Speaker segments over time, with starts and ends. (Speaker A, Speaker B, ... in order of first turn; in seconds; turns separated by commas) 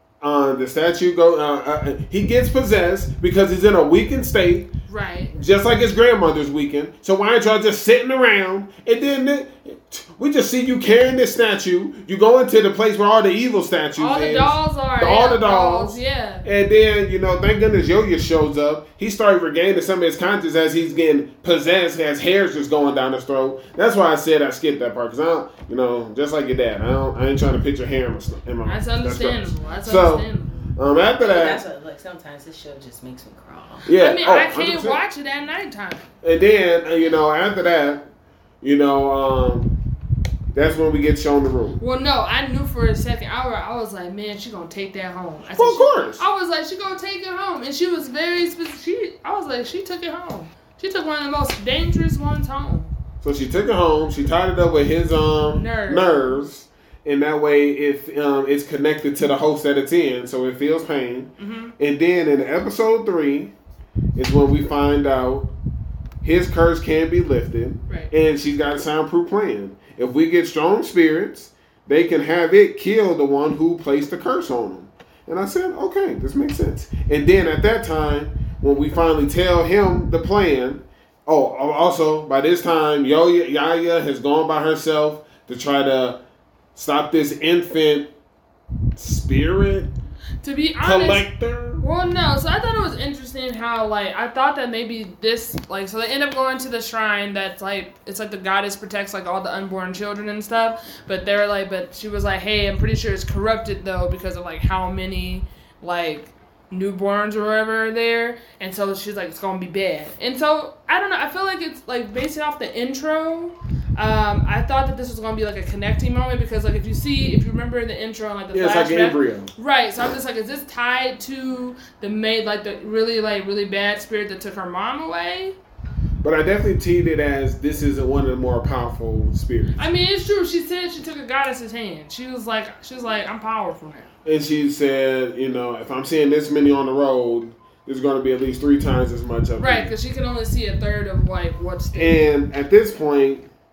Speaker A: 0.2-4.7, Speaker B: 4.9-5.3, Speaker A: 5.3-31.6, Speaker B: 14.0-16.4, Speaker B: 28.7-30.6, Speaker C: 31.2-33.9, Speaker A: 33.9-35.0, Speaker B: 34.0-36.1, Speaker A: 36.2-38.0, Speaker A: 38.6-39.7, Speaker A: 40.5-41.8, Speaker B: 41.8-52.9, Speaker A: 45.5-46.2, Speaker A: 53.2-63.5, Speaker B: 55.5-56.4, Speaker B: 61.4-61.7, Speaker A: 64.2-65.5, Speaker A: 66.2-86.2, Speaker A: 86.8-88.1, Speaker A: 89.0-89.9, Speaker B: 90.4-91.3, Speaker A: 90.8-91.8, Speaker B: 91.8-125.5, Speaker A: 118.5-119.5, Speaker A: 126.2-129.9, Speaker B: 129.8-134.1, Speaker A: 134.2-139.9, Speaker B: 139.6-142.2, Speaker A: 141.9-143.5